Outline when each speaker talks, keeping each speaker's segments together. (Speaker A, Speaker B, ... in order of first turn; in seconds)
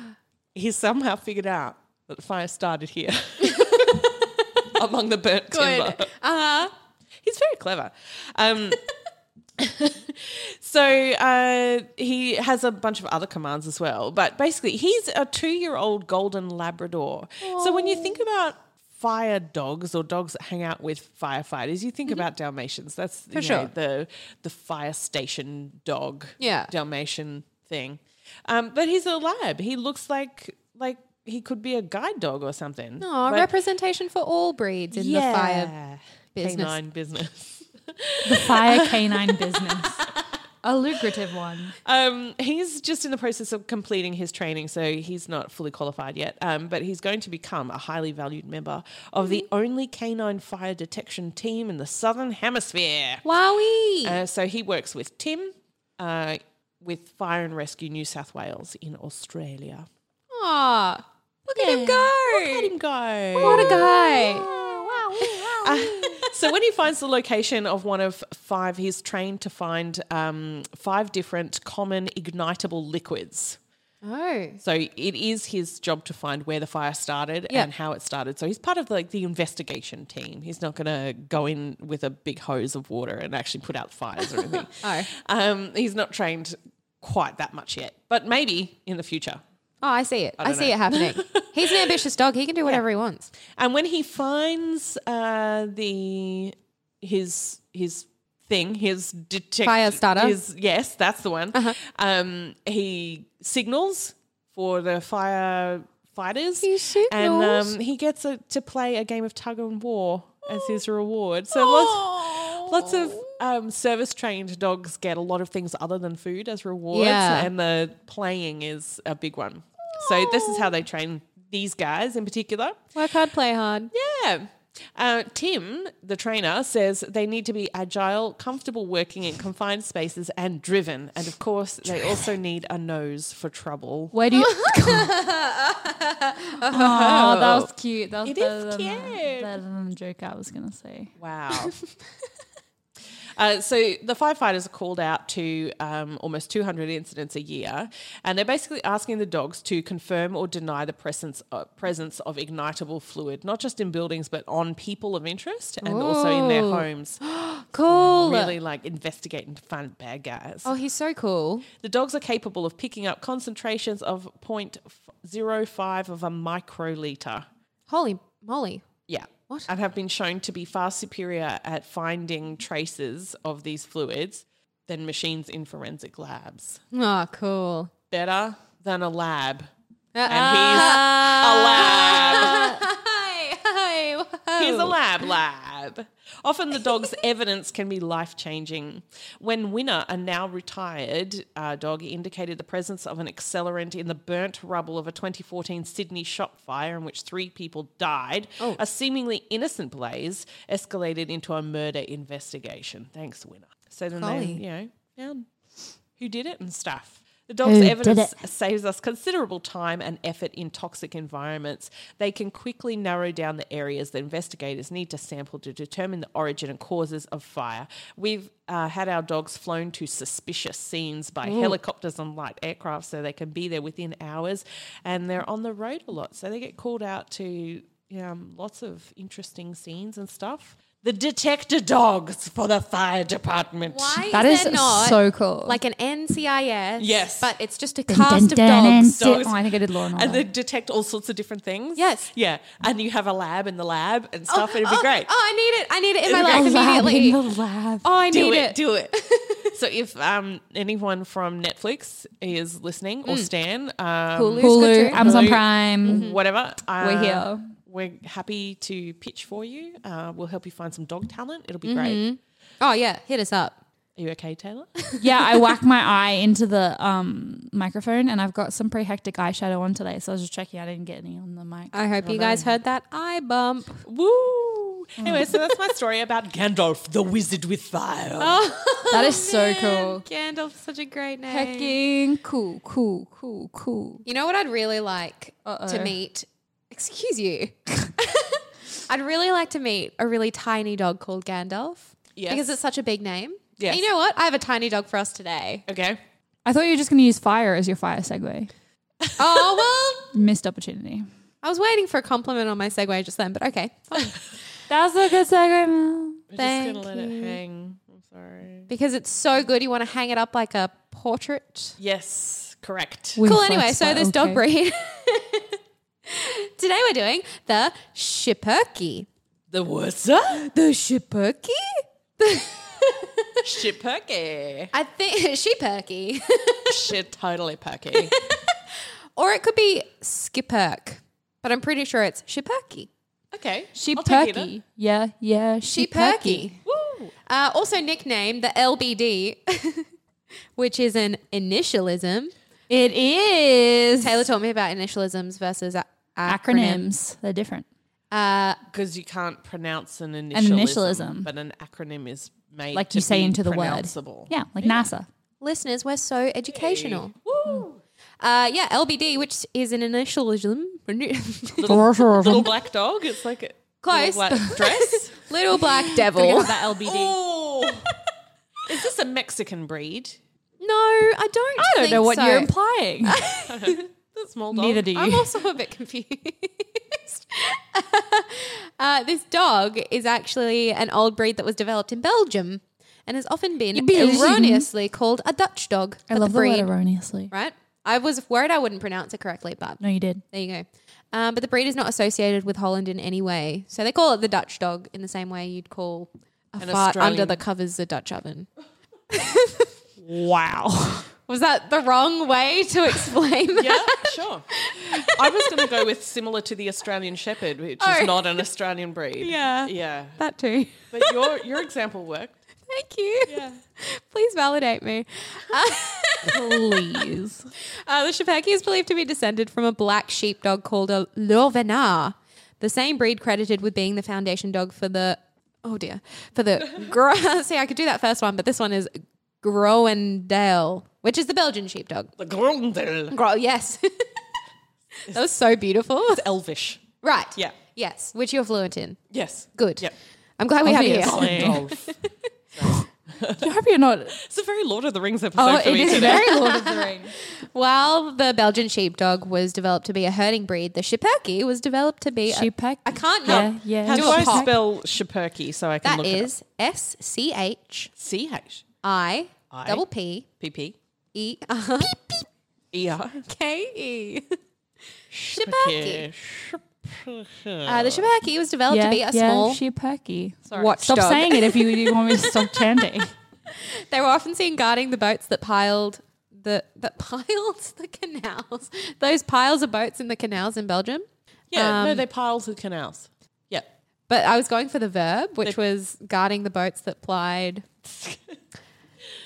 Speaker A: 0.5-4.1, 4.6-6.1, 7.2-8.8, 9.6-33.5, 34.9-40.0, 41.8-53.2, 54.0-59.9, 61.5-73.6, 74.6-89.4, 90.4-92.0, 93.5-122.8, 123.9-134.2, 136.8-137.7, 138.2-139.6, 141.2-141.7, 143.3-157.2, 157.9-160.7, 161.8-167.5, 169.1-176.8, 178.1-179.7, 180.2-182.8, 184.6-205.5, 206.2-234.3, 237.0-237.5, 239.1-245.3, 246.3-246.7, 248.3-249.2, 249.7-262.2, 264.1-264.9, 272.2-272.7, 274.0-278.7, 292.4-292.7, 293.8-294.0, 295.9-296.2, 299.4-299.9, 306.5-308.9, 312.0-313.4, 319.7-320.7, 323.6-324.9, 326.9-328.3, 333.5-334.7, 336.9-337.3, 348.9-355.1, 356.7-358.0, 361.8-365.4, 367.0-368.1, 368.9-370.4, 373.6-375.3, 396.8-397.6, 403.7-404.7, 405.2-410.4, 411.1-412.6, 413.5-413.8, 432.4-433.4, 436.3-437.0, 439.3-440.1, 441.2-442.2, 442.7-443.7, 444.3-446.6, 453.4-456.5, 458.2-458.8, 459.7-460.0, 460.6-460.9, 462.9-463.4, 465.3-468.3, 481.7-483.9, 488.1-488.4
Speaker B: 3.4-4.1, 5.5-6.7, 17.4-18.2, 23.3-23.7, 26.4-26.7, 33.0-35.7, 36.3-36.8, 53.2-54.2, 60.3-62.7, 63.3-64.5, 65.2-66.3, 74.0-74.6, 84.5-85.1, 89.8-93.3, 99.6-100.4, 106.6-107.7, 111.5-113.4, 116.9-117.5, 119.9-120.7, 122.9-123.9, 134.3-137.3, 155.8-158.6, 160.6-161.7, 167.9-168.8, 176.9-177.9, 180.1-185.0, 204.1-204.6, 221.4-221.8, 233.9-239.2, 241.9-242.3, 244.5-247.4, 248.0-249.7, 254.3-256.4, 261.8-263.8, 271.9-274.0, 278.4-282.0, 284.2-295.8, 299.4-300.3, 301.6-304.4, 306.6-307.6, 308.9-312.0, 313.4-319.3, 320.7-323.6, 324.9-327.0, 328.1-328.8, 329.3-333.1, 335.9-336.8, 337.5-340.1, 340.8-342.5, 344.2-347.1, 348.3-348.8, 355.6-357.3, 358.4-361.9, 364.0-366.9, 370.8-372.7, 373.3-374.0, 375.1-386.9, 387.5-390.0, 390.5-398.7, 399.3-399.9, 401.4-405.9, 408.0-408.6, 409.4-411.7, 412.9-417.2, 418.0-432.3, 433.3-434.3, 435.2-436.4, 437.2-439.2, 439.7-442.1, 446.1-454.7, 456.0-458.1, 459.0-460.5, 461.3-462.4, 463.5-464.6, 465.5-466.3, 467.9-469.8, 470.7-472.8, 473.7-482.2, 484.3-487.9
Speaker C: 38.2-40.1, 40.6-41.8, 134.1-135.2, 136.7-141.1, 207.6-208.3, 234.3-235.8, 238.1-240.4, 246.4-248.0, 254.6-256.2, 257.0-257.7, 265.2-271.9, 275.2-275.5, 279.1-280.2, 281.5-284.2, 285.6-286.1, 296.6-298.7, 300.3-301.3, 304.9-306.4, 313.4-314.6, 333.9-336.7, 342.9-344.4, 346.5-347.8, 350.5-351.5, 352.9-355.3, 361.9-362.7, 366.0-367.4, 371.8-373.5, 374.7-375.5, 383.9-384.9, 386.3-387.5, 390.0-390.4, 400.3-401.2, 416.4-417.7, 440.8-441.9, 443.6-444.4, 445.6-447.3, 452.5-454.8, 468.9-473.3